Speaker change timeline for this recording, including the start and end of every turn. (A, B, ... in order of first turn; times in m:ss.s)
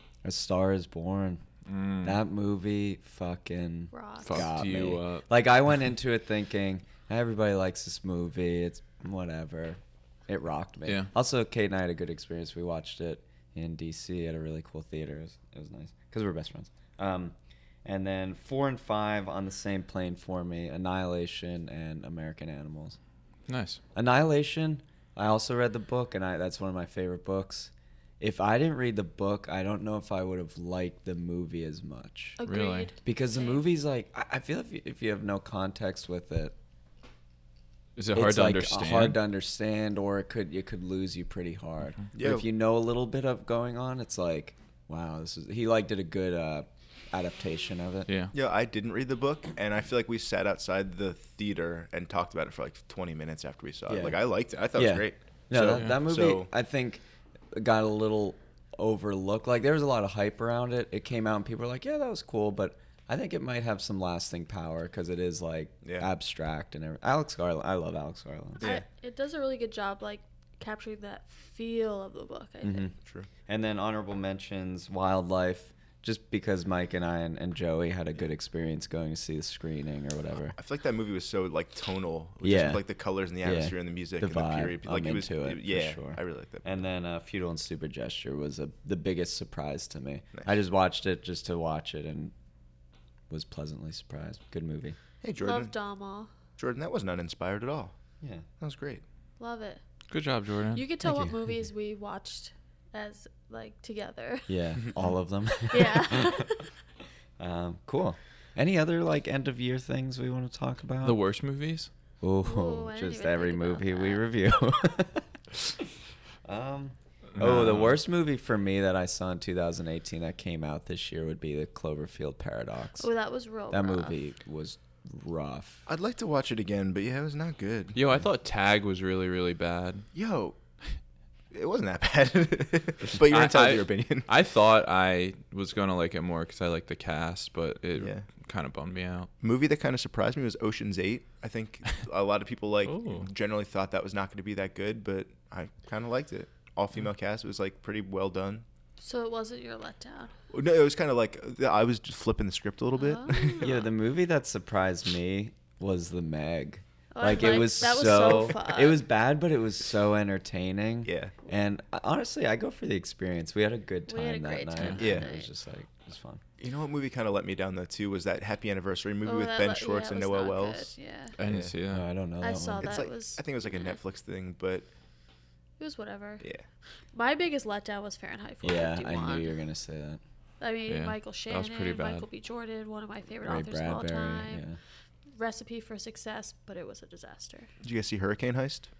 0:00.2-0:01.4 A
0:01.6-0:02.2 B
0:02.0-0:23.0 A
0:03.9-0:04.5 C
0:04.2-0:05.3 B
0:23.5-0:23.8 B
0:23.9-0:32.4 A
0:32.4-0:33.6 C
0:32.4-0:32.9 B
0:33.0-0:36.5 A
0:38.0-0:39.2 B
0:38.1-0:48.1 A
0:42.1-0:42.4 D
0:48.1-0:48.3 B
0:48.3-0:56.5 D
0:53.9-0:54.2 A
0:54.7-1:08.7 A
0:55.7-0:56.0 B
1:05.8-1:06.1 D
1:08.6-1:08.8 D
1:08.6-1:12.9 C
1:12.6-1:12.9 A
1:13.0-1:13.3 D
1:13.5-1:20.6 A
1:20.5-1:26.8 D
1:22.4-1:22.8 A
1:23.4-1:32.3 A
1:33.3-1:35.0 A
1:35.2-1:35.7 D
1:35.4-1:36.3 C
1:36.6-1:37.9 D
1:38.2-1:38.4 A
1:38.6-1:39.0 D
1:39.4-1:39.8 C
1:40.1-1:40.8 B
1:40.7-1:44.9 C
1:41.0-1:41.3 A
1:44.5-1:46.6 A
1:45.7-1:46.7 C
1:47.4-1:51.2 A
1:51.0-1:51.9 B
1:52.2-1:55.9 A
1:52.4-1:54.2 C
1:56.4-2:03.1 A
1:57.4-1:58.0 B
2:03.0-2:04.1 C
2:03.7-2:05.8 A
2:05.9-2:08.0 D
2:07.9-2:10.0 B
2:10.1-2:10.6 D
2:11.5-2:14.3 D
2:13.2-2:19.3 B
2:18.0-2:18.2 D
2:19.4-2:28.6 D
2:22.8-2:23.3 B
2:29.0-2:30.3 C
2:30.5-2:33.8 D
2:33.0-2:33.8 C
2:33.6-2:46.4 A
2:37.1-2:39.0 C
2:41.0-2:41.3 D
2:44.1-2:45.5 C
2:45.0-2:45.2 D
2:46.6-2:50.9 D
2:49.2-2:51.3 C
2:51.4-2:52.0 B
2:51.4-2:51.7 D
2:51.9-2:53.0 A
2:52.4-2:54.0 C
2:52.8-2:54.9 D
2:55.8-2:56.4 C
2:57.1-2:59.5 C
2:58.6-3:00.2 A
3:00.6-3:04.6 C
3:00.9-3:02.2 B
3:03.4-3:04.8 A
3:05.4-3:07.7 C
3:07.8-3:08.9 D